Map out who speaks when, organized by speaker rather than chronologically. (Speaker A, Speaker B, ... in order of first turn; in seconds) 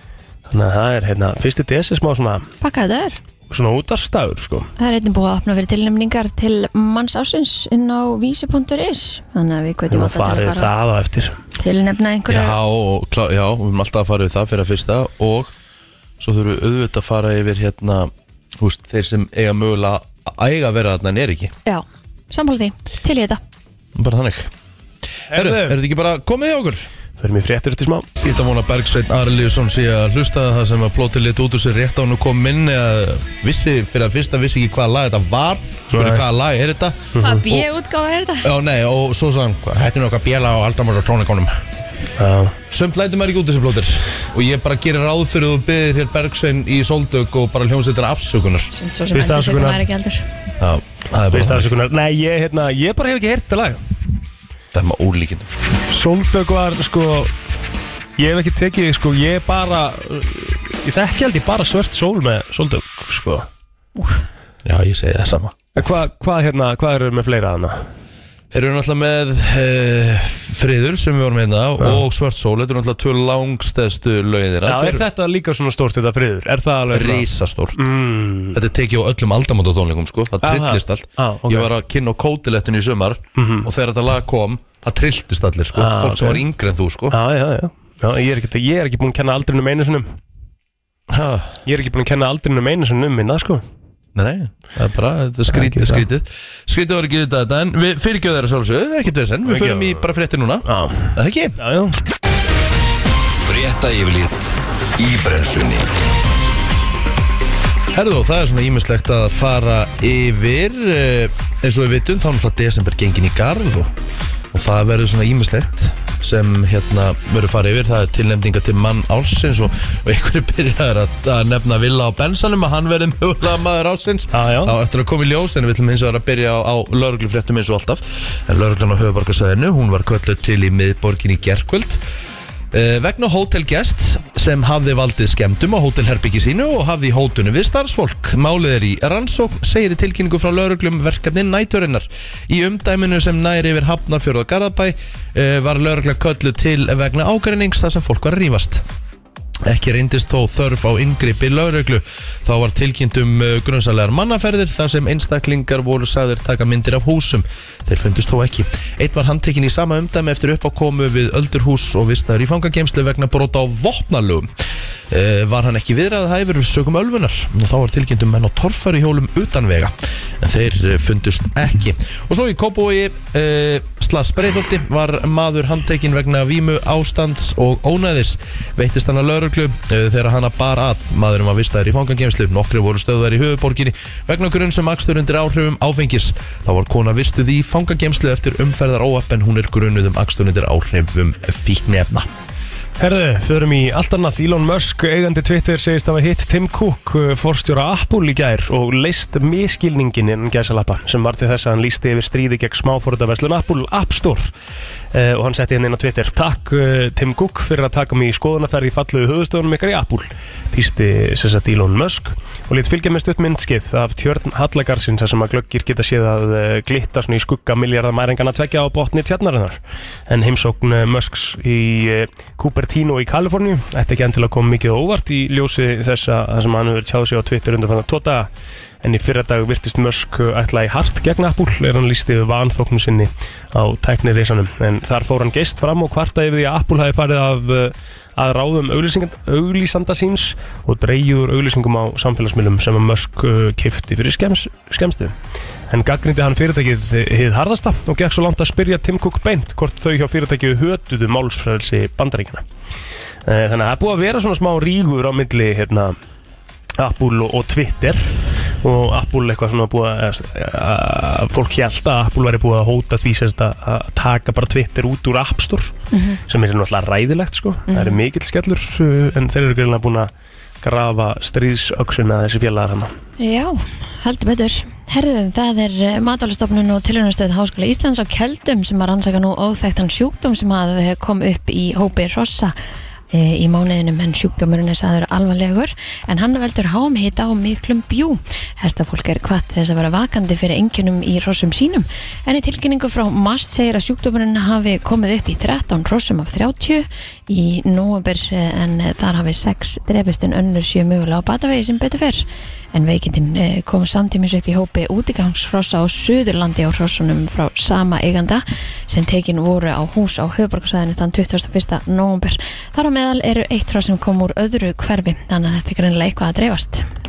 Speaker A: 0.5-2.5, 3.5-4.7, 9.9-11.3, 25.3-25.8, 27.2-28.1, 35.9-36.2, 37.1-37.4, 42.2-42.6, 49.1-49.8, 51.3-53.8, 55.9-57.3, 58.2-63.5, 65.7-67.8, 74.7-78.6, 80.4-81.7, 83.4-83.7, 85.7-86.4, 87.1-90.1, 91.7-93.6, 95.5-96.0, 99.5-100.1, 100.7-102.0, 124.3-124.7, 193.0-204.5, 205.1-228.5, 229.0-245.3, 245.9-252.6, 253.4-256.2, 257.0-265.9, 266.5-270.3, 270.8-273.1
Speaker B: 2.6-3.2, 4.8-10.7, 11.6-12.6, 21.6-23.4, 37.2-38.5, 48.7-50.2, 64.0-64.2, 266.1-266.4, 267.9-268.2, 273.4-282.7, 283.3-317.1
Speaker C: 12.3-15.5, 16.2-21.5, 23.9-24.5, 25.3-26.9, 28.2-37.7, 38.4-41.6, 42.7-48.7, 50.6-51.7, 54.7-55.5, 64.6-66.0, 68.5-75.0, 76.9-77.8, 78.5-87.2, 91.1-91.6, 94.1-101.6, 107.9-113.9, 114.5-132.0, 132.7-148.8, 149.6-164.5, 165.1-192.3
Speaker D: 103.4-105.9